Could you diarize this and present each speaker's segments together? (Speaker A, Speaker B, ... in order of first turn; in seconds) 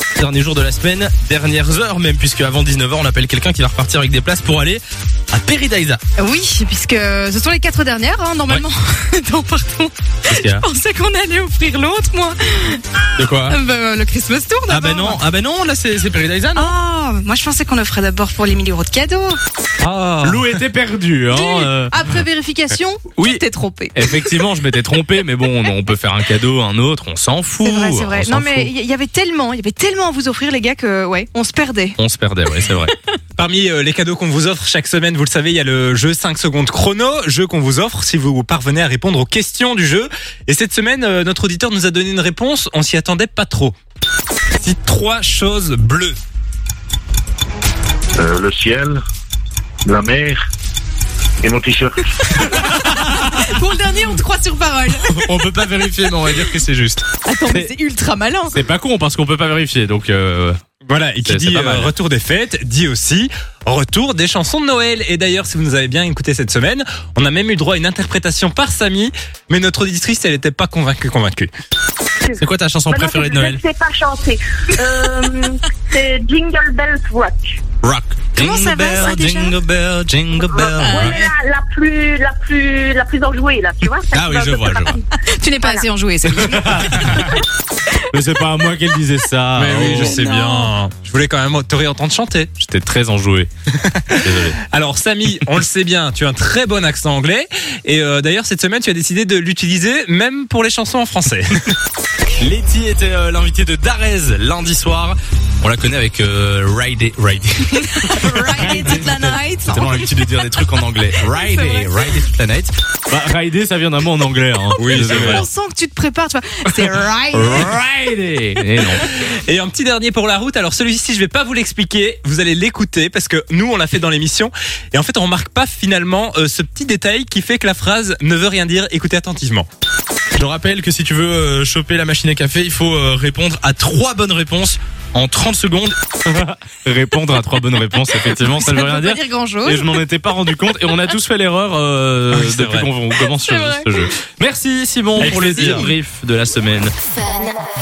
Speaker A: 0.2-6.0, 10.3-10.6, 13.2-13.6, 14.7-16.7, 20.2-21.9, 23.2-28.7, 32.0-32.9, 55.0-57.7, 58.5-60.6, 61.3-61.9, 72.4-73.6, 77.8-81.2, 84.1-85.0, 86.2-87.4, 88.1-90.2, 92.6-93.5, 94.2-94.6, 102.4-115.5, 117.3-119.1, 130.4-146.9
Speaker B: 6.2-12.8, 13.4-15.2, 16.6-19.4, 21.3-24.4, 27.6-32.0, 52.4-55.4, 57.3-58.5, 78.4-79.6, 80.8-81.3, 85.3-87.3, 90.1-90.7, 107.8-110.0, 111.2-112.0, 114.8-117.8, 138.1-140.1, 143.2-144.1, 145.3-145.9
Speaker C: 19.8-20.6, 33.4-43.8, 44.6-46.2, 60.9-71.5, 89.5-92.5, 93.8-101.8, 114.8-115.5, 119.1-129.7, 142.3-142.9, 145.2-145.9
Speaker D: 48.2-49.0, 49.9-50.4, 51.4-52.4
Speaker E: 72.2-77.6, 80.4-85.0